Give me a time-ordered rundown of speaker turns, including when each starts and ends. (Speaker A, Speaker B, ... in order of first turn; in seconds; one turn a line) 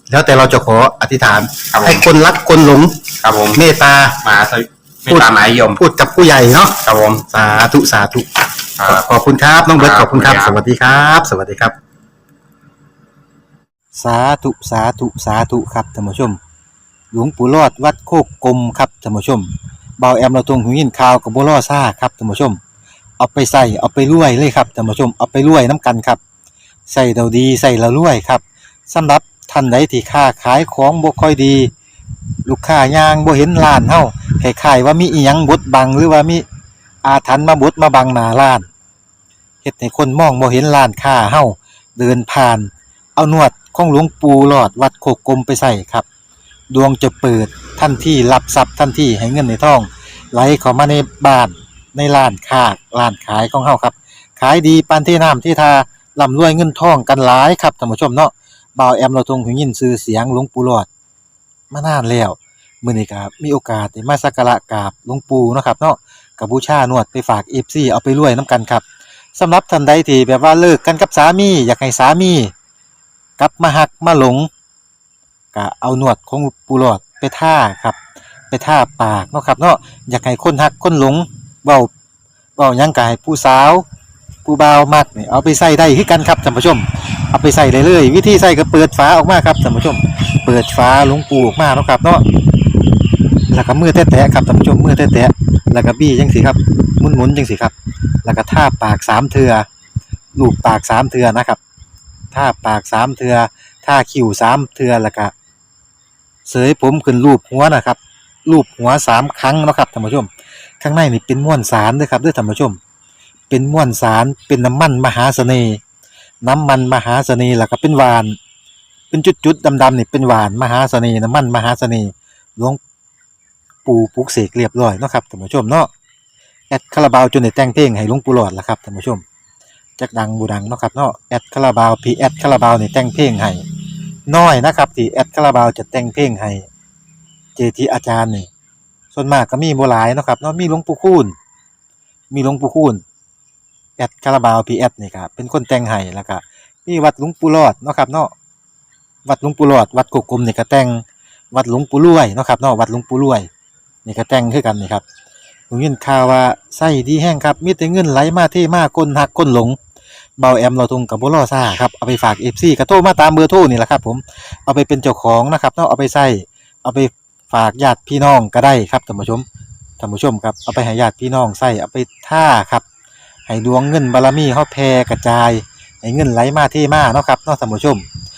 Speaker A: 0.1-3.0
Speaker B: 1.7-2.0
Speaker B: 3.2-3.6
Speaker A: 3.5-4.2
Speaker B: 4.2-5.8
Speaker A: 5.1-6.7
Speaker B: 6.8-7.2
Speaker A: 7.3-8.2
Speaker B: 8.8-9.1
Speaker A: 8.9-11.7
Speaker B: 9.8-10.6
Speaker A: 13.9-16.4
Speaker A: 17.1-19.5
Speaker A: 20.0-22.6
Speaker A: 23.2-26.2
Speaker A: 26.9-31.7
Speaker A: 32.5-36.4
Speaker A: 37.0-38.7
Speaker A: 39.6-46.0
Speaker A: 46.7-60.9
Speaker A: 61.7-68.8
Speaker A: 69.3-72.5
Speaker A: 73.4-74.5
Speaker A: 75.5-78.0
Speaker A: 78.5-81.9
Speaker A: 82.6-83.8
Speaker A: 84.4-92.2
Speaker A: 93.5-97.7
Speaker A: 98.2-99.7
Speaker A: 100.3-101.6
Speaker A: 102.3-105.3
Speaker A: 106.5-110.3
Speaker A: 110.8-112.8
Speaker A: 113.5-115.8
Speaker A: 116.4-118.4
Speaker A: 119.1-122.8
Speaker A: 123.8-125.9
Speaker A: 126.7-129.2
Speaker A: 130.0-133.6
Speaker A: 134.3-136.6
Speaker A: 137.6-138.5
Speaker A: 139.1-141.3
Speaker A: 142.3-143.0
Speaker A: 144.0-148.3
Speaker A: 149.2-153.5
Speaker A: 154.1-155.0
Speaker A: 155.7-159.8
Speaker A: 160.4-169.4
Speaker A: 170.0-172.8
Speaker A: 173.5-178.0